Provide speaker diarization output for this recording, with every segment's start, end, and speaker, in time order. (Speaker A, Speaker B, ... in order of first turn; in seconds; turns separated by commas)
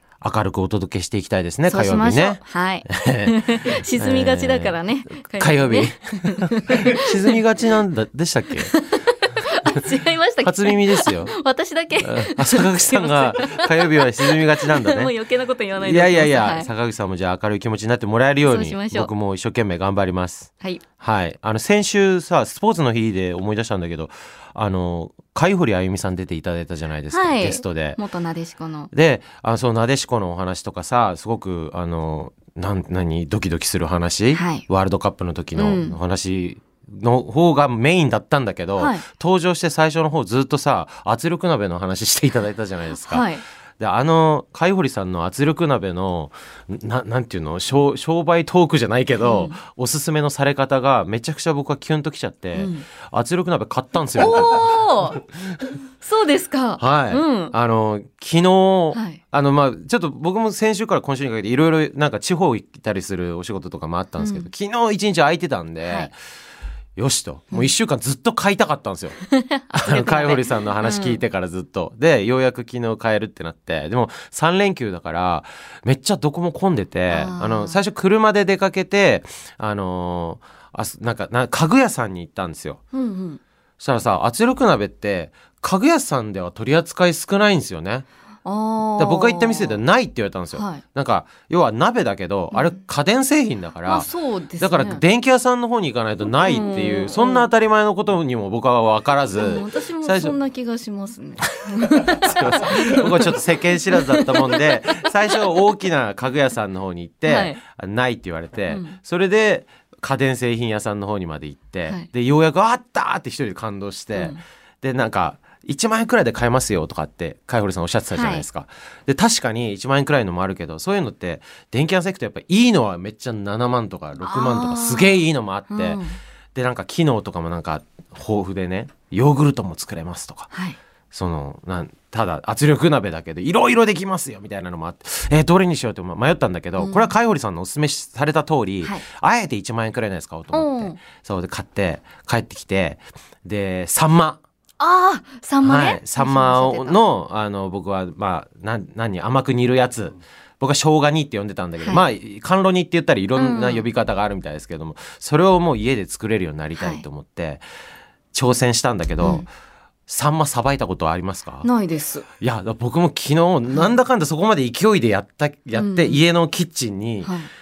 Speaker A: 0.2-8.7, Speaker B: 1.6-7.3, Speaker B: 8.7-16.7, Speaker A: 10.4-11.3, Speaker A: 12.0-15.1, Speaker A: 15.8-28.0, Speaker B: 18.4-19.1, Speaker B: 27.1-28.9, Speaker A: 28.9-43.3, Speaker B: 34.3-34.6, Speaker B: 35.5-36.0, Speaker B: 38.8-39.0, Speaker B: 43.0-43.4, Speaker A: 43.8-54.8, Speaker B: 49.2-49.6, Speaker B: 52.5-52.9, Speaker B: 54.1-55.2, Speaker B: 56.0-57.5, Speaker A: 56.8-66.1, Speaker B: 58.9-59.2, Speaker B: 64.2-64.5, Speaker B: 65.8-66.1, Speaker A: 67.0-69.2, Speaker B: 69.2-71.2, Speaker A: 69.7-82.8, Speaker B: 77.1-77.8, Speaker B: 82.9-83.4, Speaker A: 83.8-88.0, Speaker B: 88.4-89.8, Speaker A: 89.0-100.3, Speaker B: 90.5-90.8, Speaker B: 93.8-95.0, Speaker B: 96.2-97.5, Speaker B: 99.3-105.0, Speaker A: 101.5-126.0, Speaker B: 107.3-107.6, Speaker B: 108.7-108.9, Speaker B: 114.1-114.4, Speaker B: 118.1-118.5, Speaker B: 124.2-126.2, Speaker A: 126.5-130.5, Speaker B: 130.5-130.8, Speaker A: 131.1-144.4, Speaker B: 136.8-137.1, Speaker B: 140.5-141.0, Speaker B: 144.8-147.0, Speaker A: 145.6-157.6, Speaker B: 151.8-152.0, Speaker B: 153.3-153.9, Speaker B: 156.7-157.0, Speaker A: 158.3-159.5, Speaker A: 160.1-161.7, Speaker B: 161.6-162.2, Speaker A: 162.4-167.3, Speaker B: 165.7-166.2, Speaker B: 167.2-167.5